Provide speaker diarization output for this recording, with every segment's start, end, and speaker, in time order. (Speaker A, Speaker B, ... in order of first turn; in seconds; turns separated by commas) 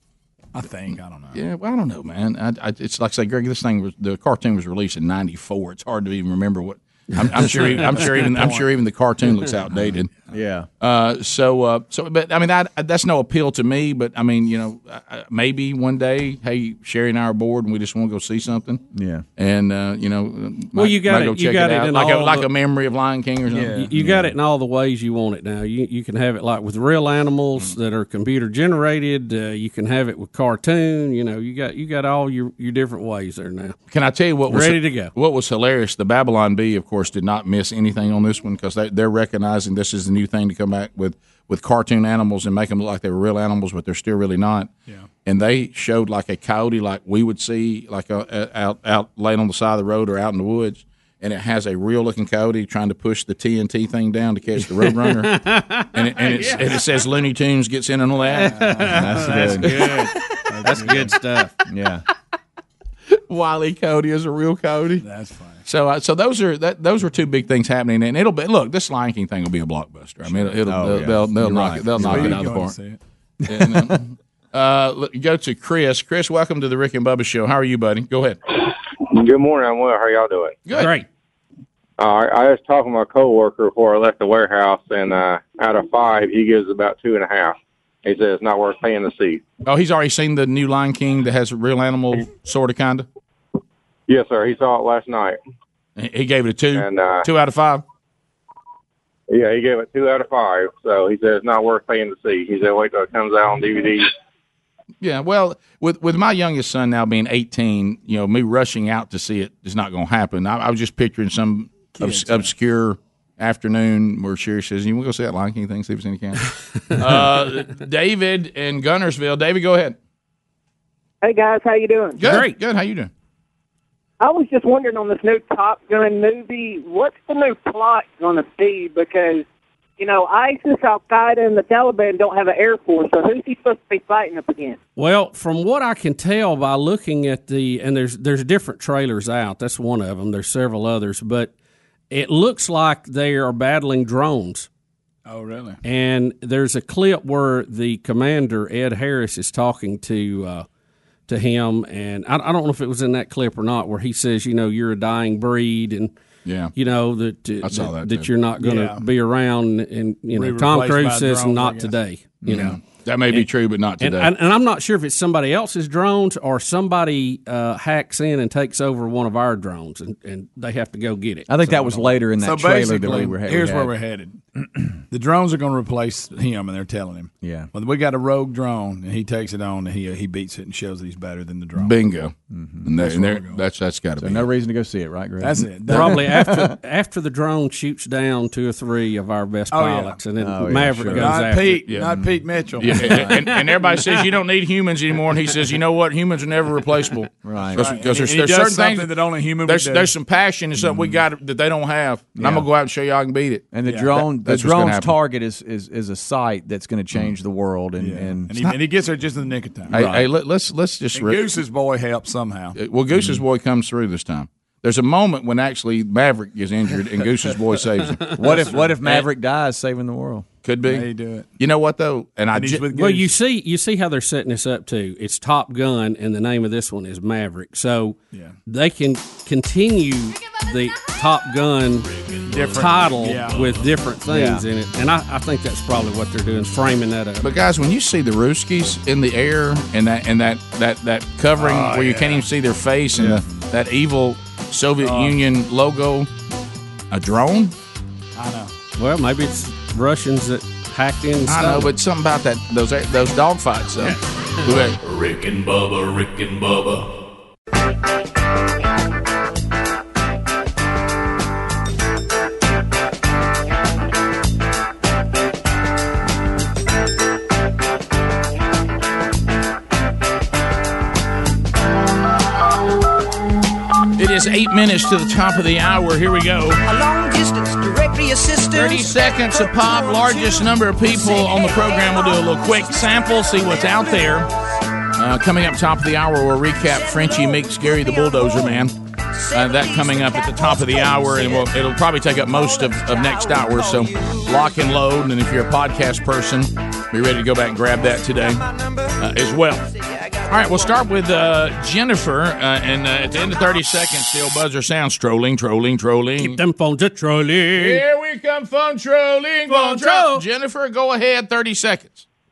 Speaker A: 0.5-1.4, Speaker B: 1.3-10.1, Speaker A: 7.4-8.7, Speaker C: 7.7-8.2, Speaker D: 10.3-10.7, Speaker B: 10.8-18.8, Speaker D: 18.9-19.2, Speaker B: 19.4-23.8, Speaker C: 20.8-22.5, Speaker A: 23.5-23.9, Speaker C: 23.7-33.8, Speaker D: 24.0-24.3, Speaker B: 33.9-44.7, Speaker C: 34.5-35.1, Speaker B: 45.2-58.9, Speaker C: 54.6-56.8, Speaker A: 58.3-61.2, Speaker C: 58.4-58.8, Speaker D: 58.9-59.7, Speaker B: 59.6-60.4, Speaker C: 59.6-60.1, Speaker C: 60.6-61.5, Speaker D: 61.7-62.0, Speaker B: 63.1-65.1, Speaker A: 65.0-65.6, Speaker B: 65.7-72.8, Speaker D: 70.6-72.5, Speaker A: 72.0-73.0, Speaker B: 73.5-78.4, Speaker E: 79.1-80.5, Speaker B: 80.7-81.0, Speaker C: 80.7-81.1, Speaker E: 82.0-89.4, Speaker B: 89.7-93.1, Speaker E: 94.1-95.4, Speaker B: 96.0-97.8, Speaker E: 96.8-97.2, Speaker E: 99.3-104.1, Speaker B: 105.0-120.0, Speaker A: 112.0-112.4, Speaker F: 121.2-122.3, Speaker B: 122.2-123.1, Speaker F: 124.2-129.4, Speaker F: 130.0-134.8, Speaker C: 135.0-141.5, Speaker C: 142.1-144.7, Speaker A: 145.3-145.8, Speaker C: 145.8-150.7, Speaker C: 151.3-156.1, Speaker B: 156.4-156.7, Speaker C: 156.8-162.7, Speaker B: 157.6-158.3, Speaker A: 158.6-159.1, Speaker A: 160.3-162.0, Speaker B: 162.4-164.3, Speaker C: 164.0-172.1, Speaker D: 171.5-173.9, Speaker A: 172.4-174.4, Speaker A: 175.1-181.9, Speaker D: 177.4-177.7, Speaker B: 181.8-182.3, Speaker D: 182.5-182.9, Speaker B: 182.8-184.5, Speaker A: 183.0-183.6, Speaker D: 184.2-186.8, Speaker A: 185.4-186.3, Speaker C: 185.9-191.8, Speaker A: 189.7-190.2, Speaker D: 190.4-193.4, Speaker A: 191.1-193.2, Speaker B: 191.8-192.2, Speaker B: 192.8-205.2, Speaker C: 193.5-194.2, Speaker D: 197.4-197.9, Speaker A: 197.8-200.1, Speaker D: 202.4-202.7, Speaker D: 203.7-208.7, Speaker A: 203.9-204.2, Speaker A: 208.0-210.0, Speaker B: 209.9-211.5, Speaker D: 209.9-210.3, Speaker A: 211.2-212.8, Speaker B: 212.8-219.3, Speaker D: 218.3-220.5, Speaker B: 220.6-221.1, Speaker A: 220.9-221.5, Speaker B: 221.6-222.9, Speaker A: 222.5-223.3, Speaker C: 222.9-232.1, Speaker A: 228.3-228.6, Speaker G: 232.0-233.9, Speaker A: 232.5-233.8, Speaker C: 232.8-237.4, Speaker D: 234.3-234.7, Speaker B: 237.4-246.3, Speaker A: 241.6-242.5, Speaker A: 243.2-243.4, Speaker A: 245.0-245.4, Speaker B: 247.1-247.7, Speaker A: 248.4-248.7, Speaker C: 249.0-251.9, Speaker B: 251.4-255.0, Speaker G: 254.8-257.1, Speaker B: 274.2-276.8, Speaker H: 276.9-278.9, Speaker B: 278.7-284.5, Speaker B: 285.2-288.9, Speaker B: 289.5-299.9, Speaker B: 300.4-306.6, Speaker C: 306.4-308.0, Speaker B: 307.7-312.3, Speaker C: 309.7-310.4